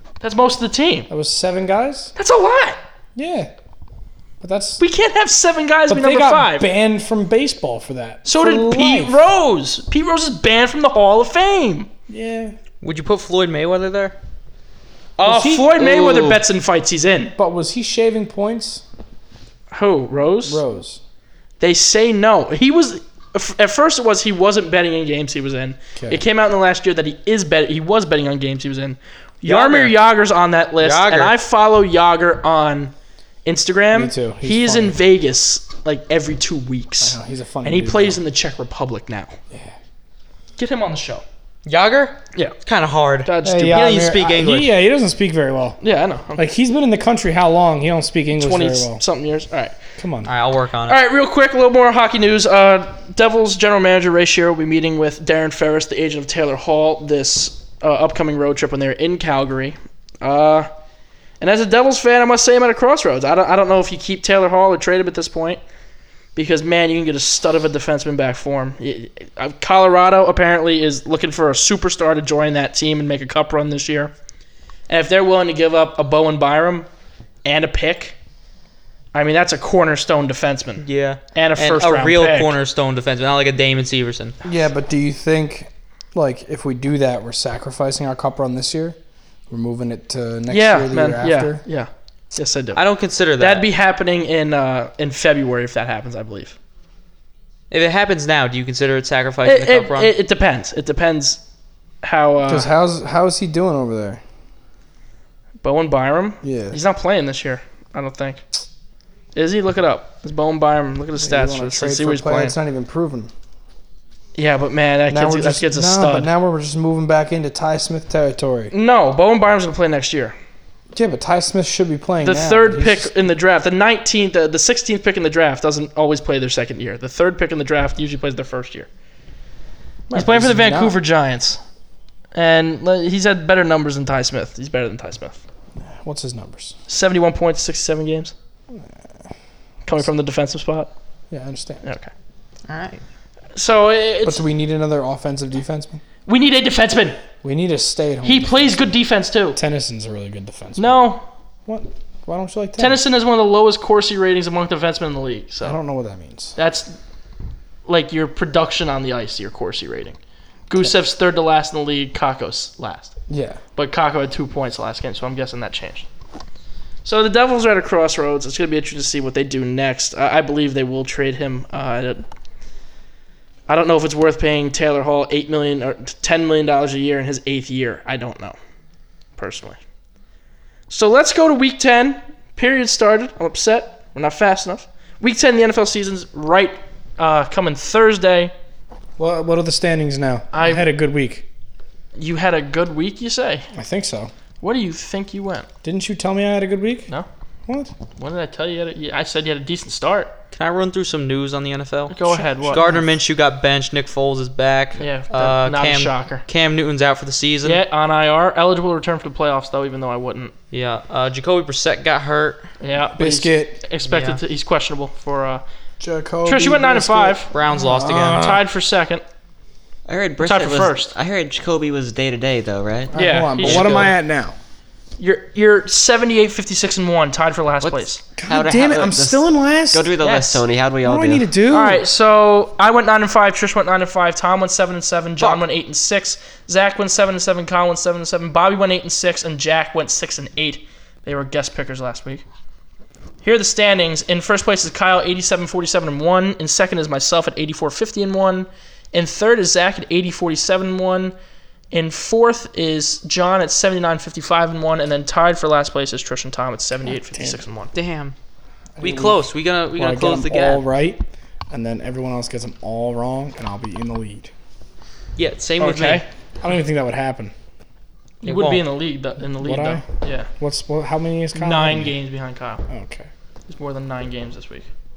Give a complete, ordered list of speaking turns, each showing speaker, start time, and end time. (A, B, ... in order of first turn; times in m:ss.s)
0:00.2-0:01.1 A
0:01.1-0:02.1 B
0:02.2-0:02.8 A
0:03.1-0:03.5 B
0:04.4-0:04.8 B
0:04.8-0:06.7 A
0:05.9-0:09.2 B
0:08.2-0:11.9 A
0:12.1-0:12.6 B
0:12.8-0:14.1 C
0:15.2-0:17.3 A
0:15.2-0:15.8 B
0:15.8-0:16.4 D
0:17.4-0:18.8 B
0:19.7-0:20.6 A
0:20.4-0:21.0 B
0:21.6-0:32.9 A
0:26.0-0:26.2 B
0:29.4-0:30.0 C
0:30.8-0:31.3 C
0:33.4-0:39.4 A
0:33.9-0:35.0 B
0:37.0-0:38.2 B
0:40.6-0:41.2 A
0:41.6-0:44.7 C
0:43.2-0:44.1 A
0:43.4-0:45.8 B
0:45.8-0:46.4 A
0:46.4-0:49.0 B
0:48.3-0:49.8 A
0:50.0-0:50.3 B
0:50.2-0:51.0 C
0:50.8-1:00.7 A
1:01.4-1:05.6 A
1:06.3-1:14.1 A
1:14.9-1:16.9 A
1:17.4-1:18.2 A
1:19.1-1:22.5 A
1:20.8-1:24.3 C
1:24.4-1:29.0 B
1:29.5-1:31.6 B
1:30.5-1:32.8 A
1:32.7-1:33.6 C
1:33.4-1:36.6 A
1:37.7-1:40.1 C
1:39.4-1:41.4 A
1:42.0-1:42.7 A
1:42.5-1:44.2 B
1:45.6-1:48.4 A
1:46.4-1:46.8 B
1:49.3-1:52.5 A
1:51.2-1:53.3 B
1:54.3-1:56.3 A
1:55.1-1:58.7 B
1:58.7-2:00.4 A
2:00.9-2:03.1 B
2:02.2-2:08.9 A
2:10.1-2:11.0 B
2:10.1-2:11.6 A
2:12.3-2:15.4 A
2:15.8-2:16.7 B
2:16.9-2:18.3 A
2:19.8-2:20.9 A
2:21.3-2:21.8 B
2:21.8-2:22.1 A
2:22.7-2:23.0 C
2:23.5-2:24.4 A
2:24.2-2:26.0 B
2:26.2-2:27.2 A
2:27.4-2:28.9 B
2:28.2-2:29.6 A
2:29.5-2:31.0 B
2:30.8-2:31.2 A
2:31.6-2:33.0 B
2:32.8-2:35.8 A
2:35.6-2:36.6 B
2:36.6-2:37.0 A
2:37.8-2:43.1 A
2:43.3-2:43.6 B
2:43.8-2:46.1 A
2:47.0-2:52.2 A
2:53.7-2:58.6 A
2:59.4-2:59.8 A
3:00.9-3:08.5 A
3:09.2-3:11.4 B
3:10.5-3:10.8 A
3:12.2-3:13.7 A
3:13.7-3:14.3 B
3:14.6-3:15.7 A
3:15.8-3:17.1 B
3:17.7-3:17.9 B
3:18.2-3:20.3 A
3:20.5-3:27.8 C
3:22.1-3:22.9 A
3:22.6-3:23.0 B
3:25.0-3:26.4 A
3:27.6-3:30.5 A
3:30.7-3:32.6 C
3:32.8-3:35.6 A
3:33.2-3:33.8 B
3:34.0-3:34.4 C
3:36.0-3:38.6 B
3:36.4-3:37.5 A
3:37.5-3:38.5 C
3:38.3-3:39.2 A
3:40.1-3:43.1 D
3:40.4-3:41.1 A
3:43.1-3:44.6 B
3:43.1-3:44.1 A
3:43.7-3:44.1 C
3:45.2-3:48.2 A
3:47.8-3:51.5 D
3:48.4-3:50.1 B
3:50.2-3:50.6 A
3:51.0-3:52.0 B
3:51.7-4:02.4 A
4:03.4-4:11.3 A
4:11.9-4:17.9 A
4:17.3-4:17.6 B
4:17.9-4:18.3 C
4:19.0-4:19.4 B
4:19.0-4:20.8 C
4:19.9-4:24.5 B
4:25.4-4:26.2 C
4:25.8-4:27.5 B
4:28.4-4:30.5 A
4:28.4-4:28.8 C
4:29.5-4:30.0 B
4:30.6-4:32.1 B
4:31.6-4:32.8 A
4:32.9-4:33.3 B
4:33.7-4:34.9 A